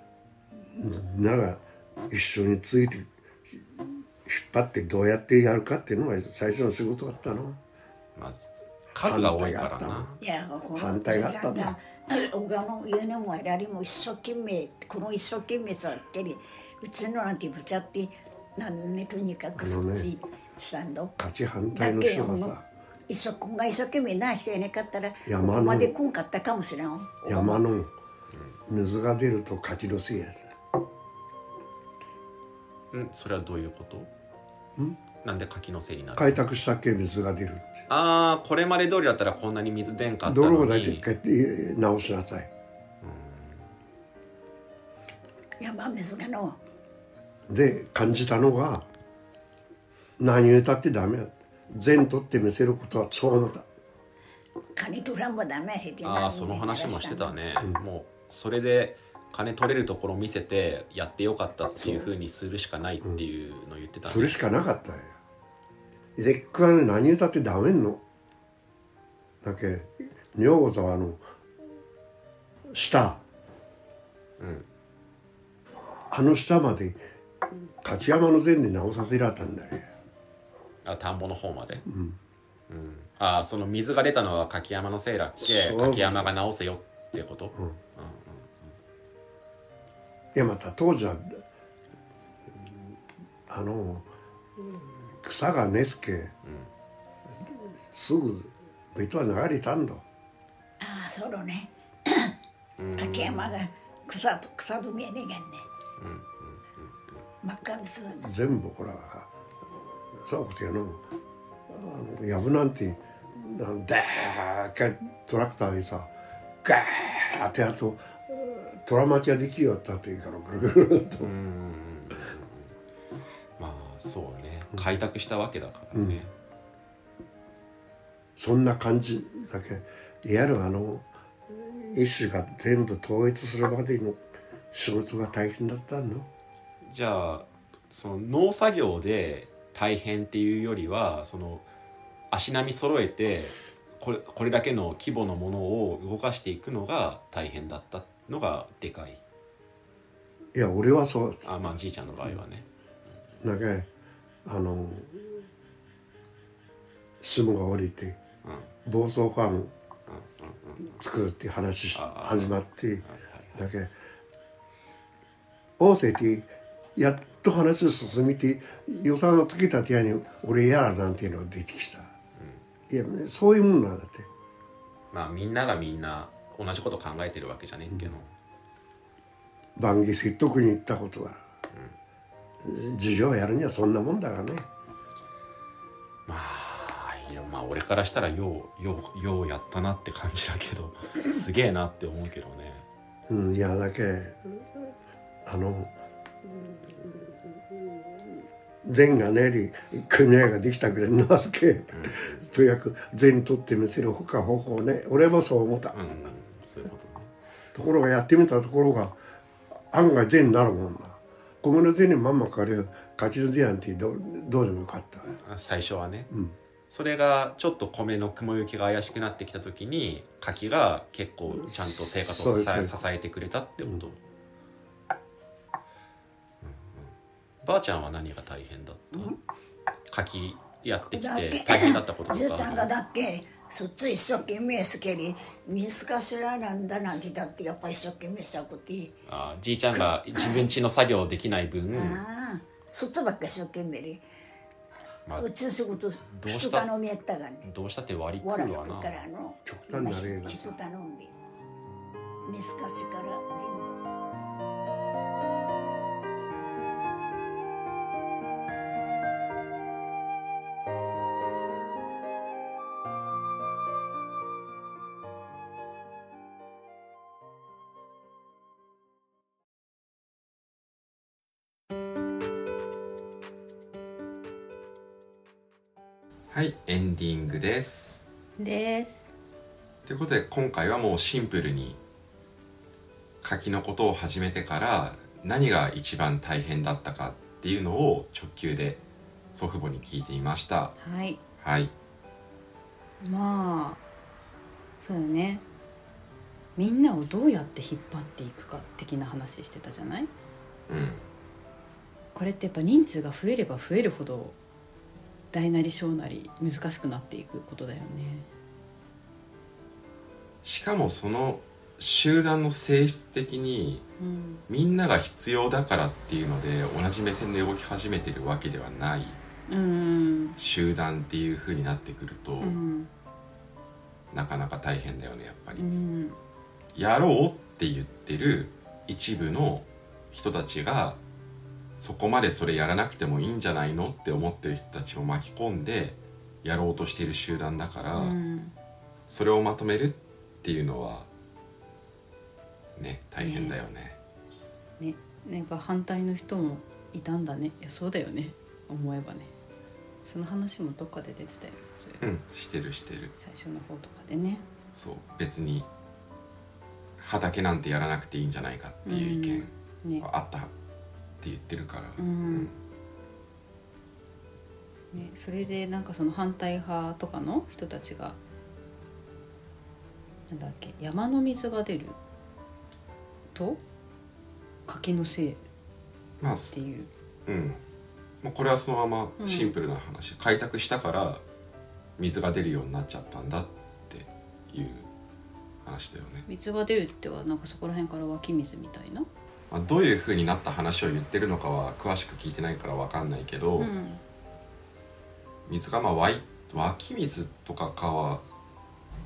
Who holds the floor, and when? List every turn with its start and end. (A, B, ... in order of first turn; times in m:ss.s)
0:00.6-0:07.6 A
0:08.2-0:10.2 B
0:09.0-0:10.1 A
0:10.2-0:21.2 C
0:10.8-0:11.8 A
0:19.6-0:20.1 A
0:21.2-0:22.7 A
0:21.8-0:22.6 C
0:23.1-0:27.6 C
0:25.3-0:26.0 A
0:27.2-0:27.9 A
0:28.7-0:30.5 A
0:32.9-0:34.1 B
0:35.2-0:36.4 B
0:36.2-0:37.8 A
0:37.9-0:41.0 B
0:40.2-0:42.5 A
0:43.0-0:43.7 B
0:45.6-0:46.6 C
0:47.5-0:48.9 A
0:50.2-0:53.7 A
0:54.8-0:57.3 C
0:56.0-1:04.4 B
1:01.8-1:02.1 A
1:04.0-1:05.2 A
1:06.2-1:08.0 A
1:09.4-1:11.2 A
1:12.7-1:13.2 A
1:14.4-1:14.7 B
1:16.1-1:17.0 A
1:17.8-1:19.9 A
1:20.8-1:21.8 B
1:21.8-1:22.2 A
1:22.7-1:28.8 B
1:25.4-1:26.3 A
1:30.3-1:31.4 A
1:32.5-1:32.9 A
1:33.5-1:36.3 A
1:36.4-1:36.7 B
1:37.4-1:40.0 A
1:40.8-1:42.3 C
1:42.8-1:43.6 B
1:43.0-1:45.7 C
1:46.0-1:47.2 B
1:47.4-1:48.2 C
1:48.2-1:49.3 A
1:50.1-1:51.0 A
1:51.7-1:56.1 A
1:56.6-2:01.3 A
2:01.2-2:02.7 B
2:03.6-2:06.3 B
2:05.9-2:06.2 A
2:08.4-2:14.2 A
2:14.7-2:16.3 A
2:16.9-2:21.6 B
2:22.3-2:29.2 B
2:30.5-2:31.5 A
2:31.4-2:32.7 B
2:33.4-2:33.9 A
2:34.4-2:35.4 A
2:37.2-2:38.2 A
2:38.4-2:38.7 B
2:38.8-2:39.7 A
2:40.1-2:40.9 B
2:40.8-2:43.9 A
2:41.9-2:43.5 B
2:45.8-2:52.1 A
2:52.9-2:54.3 A
2:55.1-2:58.3 B
2:59.8-3:01.4 A
3:02.6-3:04.7 A
3:06.3-3:12.8 B
3:13.3-3:14.9 A
3:15.4-3:15.9 A
3:16.4-3:26.0 A
3:21.9-3:22.4 B
3:25.9-3:27.3 B
3:27.8-3:29.2 A
3:29.9-3:35.4 A
3:35.4-3:36.3 B
3:36.3-3:36.6 A
3:36.9-3:44.2 B
3:41.5-3:42.9 A
3:46.6-3:47.1 D
3:47.6-3:49.4 B
3:50.1-3:52.9 B
3:51.1-3:59.2 C
3:59.3-4:02.2 B
4:00.0-4:00.7 C
4:01.9-4:04.2 C
4:05.4-4:07.7 C
4:06.3-4:06.9 B
4:07.6-4:09.2 B
4:08.4-4:11.3 C
4:09.7-4:10.8 A
4:12.4-4:14.0 C
4:36.5-4:38.2 D
4:38.6-4:39.3 E
4:40.1-4:42.0 D
4:43.4-4:49.0 D
4:49.5-4:51.0 D
4:51.0-4:51.4 E
4:51.6-4:51.9 D
4:53.2-4:54.0 E
4:55.0-4:55.6 E
4:56.8-5:00.3 E
5:00.9-5:01.2 D
5:02.3-5:04.6 E
5:05.5-5:08.5 E
5:10.6-5:14.0 D
5:14.2-5:14.6 E
5:14.7-5:19.4 D
5:19.7-5:20.6 E
5:20.6-5:22.8 D
5:22.6-5:23.1 E
5:24.3-5:25.9 D
5:25.8-5:26.4 E
5:27.0-5:31.2 D
5:32.0-5:38.4 D
5:38.1-5:38.8 E
5:39.3-5:41.3 D
5:43.0-5:44.2 D
5:43.4-5:43.8 E
5:45.0-5:49.5 E
5:50.2-5:52.2 E
5:52.2-5:53.3 D
5:53.4-5:54.6 E
5:55.0-5:55.9 D
5:57.2-5:59.7 D
5:59.1-6:00.3 E
6:00.2-6:00.7 D
6:01.4-6:02.8 D
6:02.2-6:02.7 E
6:05.1-6:08.4 E
6:10.5-6:12.2 E
6:13.5-6:13.8 E
6:14.9-6:15.6 E
6:16.4-6:16.8 D
6:16.7-6:17.1 E
6:17.5-6:17.8 D
6:18.4-6:21.4 D
6:19.4-6:19.8 E
6:22.2-6:25.1 D
6:25.8-6:26.4 D
6:26.5-6:29.3 E
6:29.7-6:33.9 D
6:33.8-6:34.2 E
6:35.7-6:38.4 D